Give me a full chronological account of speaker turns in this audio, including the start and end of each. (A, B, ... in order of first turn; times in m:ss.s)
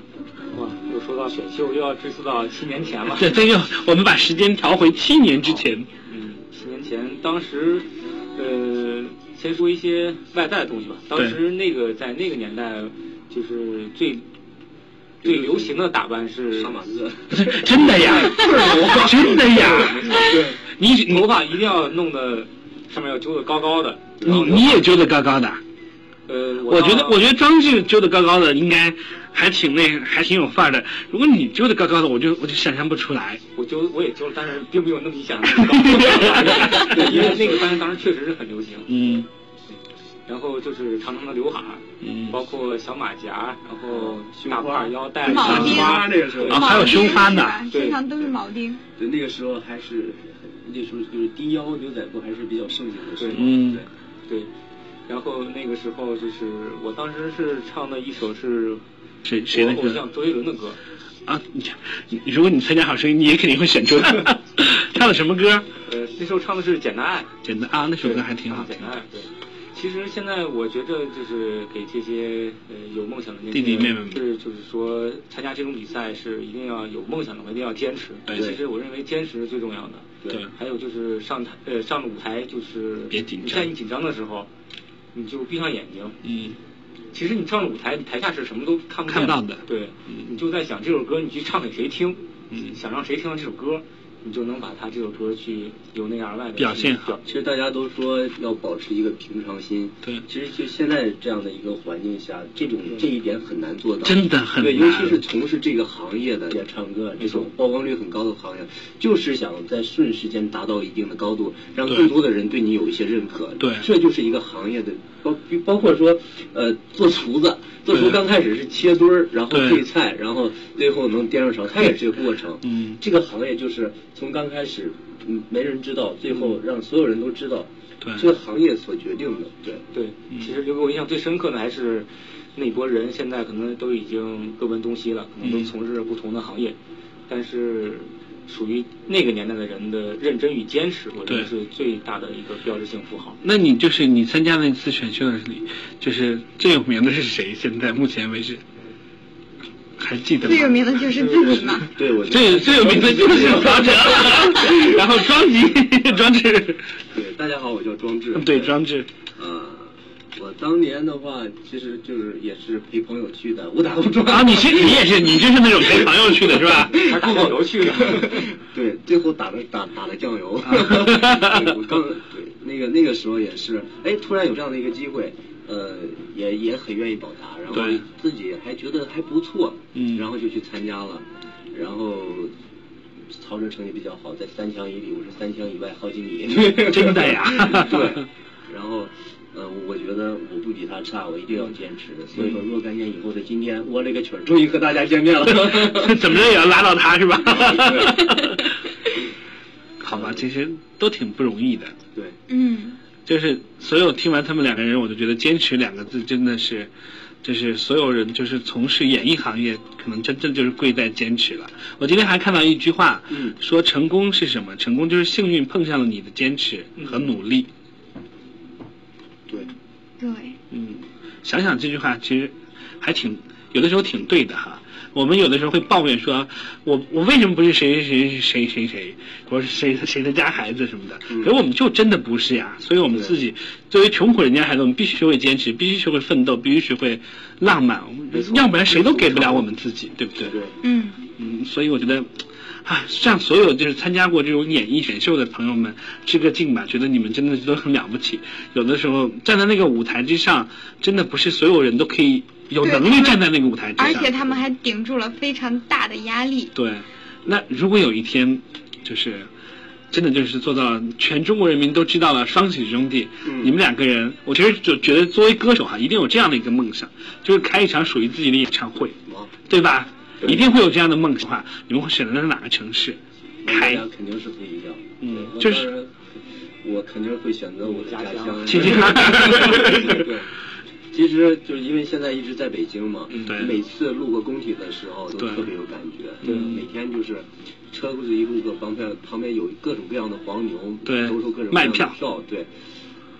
0:00.5-0:03.4 A
0:03.1-0:05.9 B
0:05.4-0:14.2 A
0:15.2-0:15.7 C
0:15.2-0:16.8 A
0:16.5-0:20.6 C
0:17.3-0:21.3 B
0:18.0-0:20.4 A
0:21.1-0:24.7 A
0:24.2-0:24.6 C
0:24.2-0:25.6 B
0:26.3-0:27.2 A
0:26.6-0:33.4 B
0:33.6-0:38.9 A
0:35.6-0:36.9 B
0:36.3-0:37.8 C
0:38.9-0:39.3 B
0:40.3-0:46.6 A
0:42.0-0:42.3 B
0:43.9-0:47.1 C
0:45.2-0:48.8 D
0:45.4-0:47.7 B
0:47.7-0:48.0 A
0:49.0-0:53.9 C
0:53.2-0:53.5 A
0:53.3-0:53.8 B
0:55.1-0:58.8 A
0:59.2-1:00.0 B
0:59.5-1:00.8 A
1:01.2-1:05.7 B
1:05.8-1:07.3 A
1:07.4-1:09.0 B
1:08.0-1:24.5 A
1:13.5-1:14.2 B
1:18.3-1:18.5 B
1:18.3-1:18.6 C
1:23.1-1:23.7 B
1:25.1-1:26.2 A
1:26.2-1:26.6 B
1:27.1-1:37.2 A
1:29.1-1:30.3 B
1:32.5-1:32.8 B
1:36.6-1:37.2 B
1:37.2-2:09.8 C
1:44.0-1:45.2 B
1:47.2-1:47.5 A
1:53.6-1:53.9 B
1:59.5-1:59.8 B
2:02.6-2:03.0 B
2:08.0-2:08.3 B
2:09.9-2:16.8 A
2:15.4-2:15.7 B
2:17.3-2:23.4 A
2:23.4-2:28.6 B
2:30.0-2:37.0 B
2:30.4-2:31.9 D
2:31.0-2:31.7 A
2:31.8-2:34.8 C
2:37.1-2:38.8 C
2:38.3-2:39.1 B
2:39.4-2:45.2 C
2:44.2-2:47.0 B
2:45.8-3:02.5 C
2:46.9-2:48.5 A
2:50.6-2:51.8 B
2:57.7-2:58.0 B
2:59.9-3:00.3 B
3:03.3-3:16.4 C
3:06.8-3:08.2 B
3:15.6-3:18.8 B
3:17.5-3:18.3 C
3:20.0-3:22.0 B
3:20.0-3:20.4 C
3:22.5-3:23.0 D
3:23.2-3:26.9 B
3:27.4-3:37.7 B
3:33.3-3:33.6 C
3:37.0-3:37.2 A
3:40.2-3:40.6 D
3:40.7-4:00.6 B
3:58.3-3:59.6 C
4:00.4-4:00.8 C
4:00.8-4:01.2 D
4:01.4-4:14.6 B
4:12.8-4:13.4 D
4:14.0-4:16.7 D
4:16.7-4:19.5 B
4:20.1-4:29.2 B
4:23.4-4:23.7 C
4:29.2-4:29.5 C
4:29.7-4:34.0 B
4:33.6-4:36.2 C
4:35.2-4:35.9 B
4:36.8-4:40.5 C
4:37.8-4:40.0 A
4:38.6-4:40.2 B
4:41.1-4:52.7 C
4:43.3-4:43.6 A
4:43.5-4:43.8 B
4:45.4-4:45.7 B
4:46.4-4:46.8 A
4:51.0-4:52.2 B